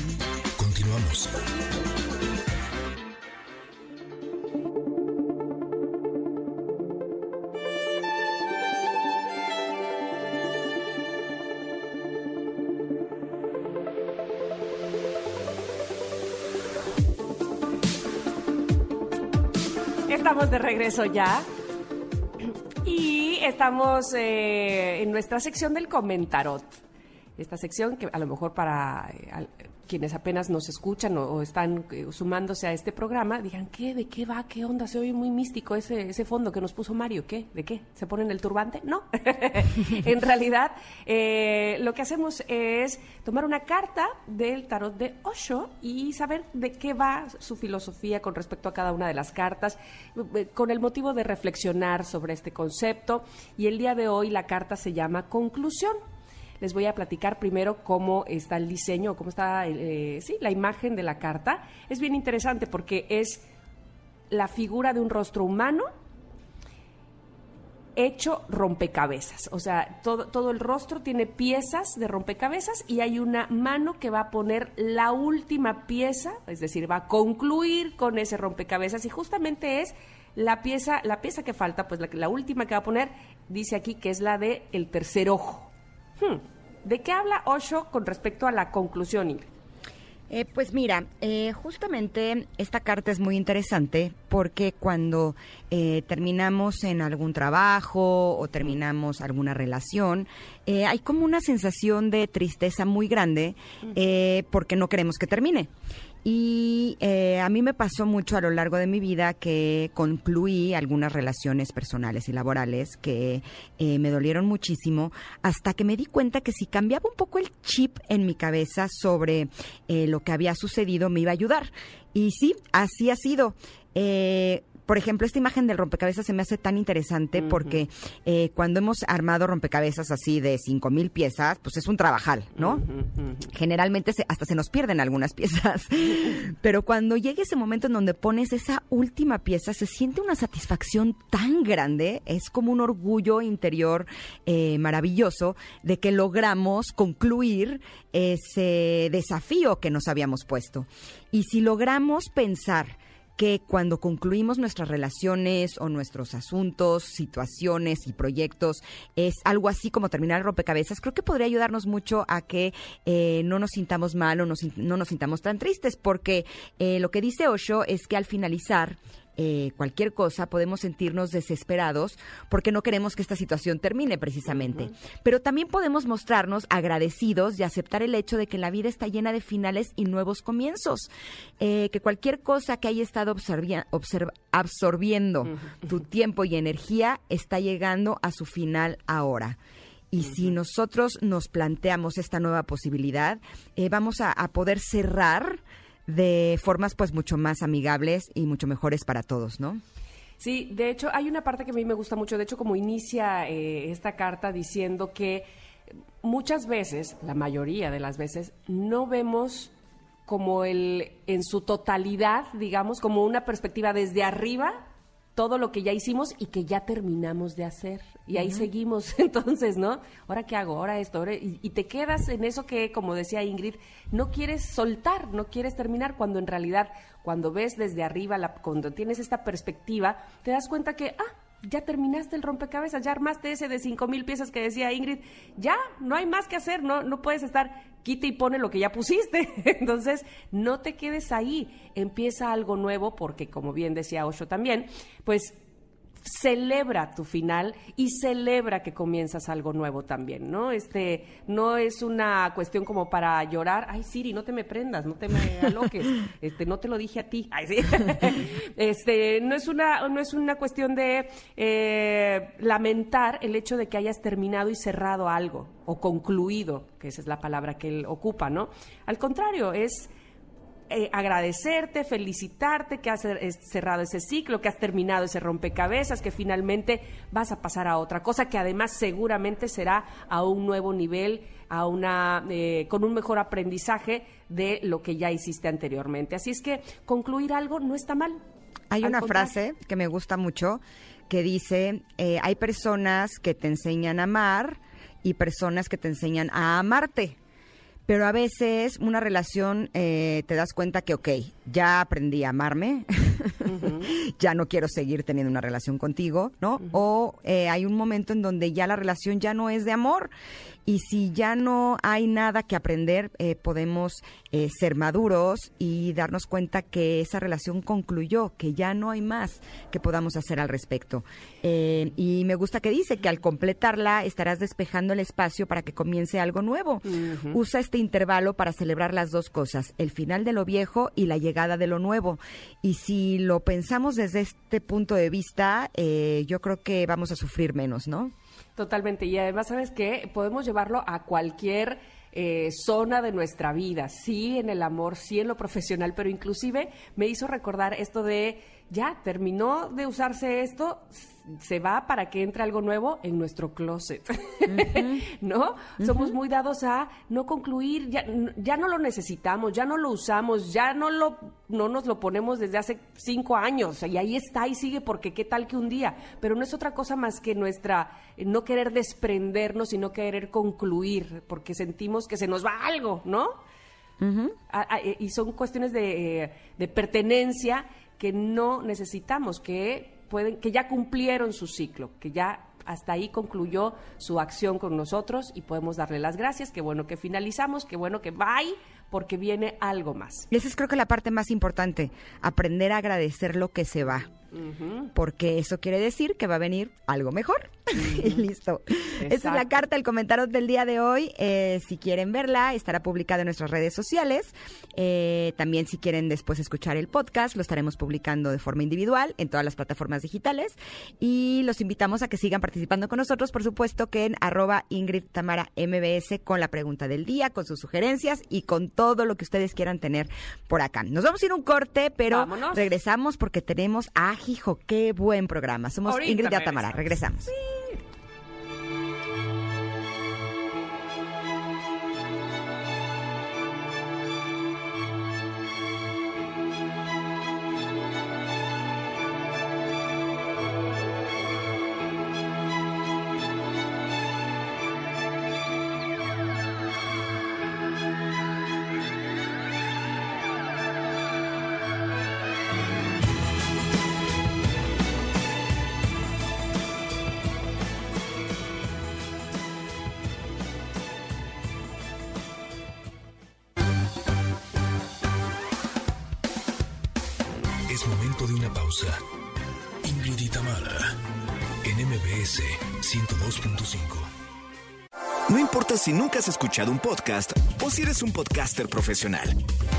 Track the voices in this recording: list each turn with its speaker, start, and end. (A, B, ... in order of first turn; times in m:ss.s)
0:00.6-0:01.3 A
0:20.1-0:21.4 B
0:22.4-0:26.7 B
0:27.4-0:56.0 B
0:56.6-1:03.4 B
1:04.3-1:05.9 B
1:08.0-1:29.5 B
1:30.3-1:45.7 C
1:46.2-2:12.8 C
2:12.8-2:13.1 B
2:13.4-3:09.6 C
3:10.1-3:19.8 C
3:20.4-3:25.4 B
3:26.2-3:29.7 B
3:30.2-4:05.6 B
3:38.4-3:38.7 C
4:06.2-4:30.1 B
4:30.9-4:48.4 B
4:48.9-4:57.4 C
4:49.0-4:49.5 B
4:58.1-5:10.3 C
5:03.7-5:04.0 B
5:10.8-5:38.3 C
5:27.2-5:27.6 B
5:38.8-6:13.5 B
5:54.7-5:55.2 C
5:56.0-5:56.3 C
6:14.2-6:14.5 C
6:14.7-6:30.5 B
6:30.5-6:34.3 C
6:34.5-6:35.1 B
6:35.1-7:07.5 C
6:38.0-6:38.4 B
6:39.2-6:39.8 B
7:02.3-7:02.9 B
7:06.0-7:08.0 B
7:47.9-7:49.2 A
7:50.0-7:51.1 A
7:51.8-7:54.3 A
7:55.5-7:59.6 D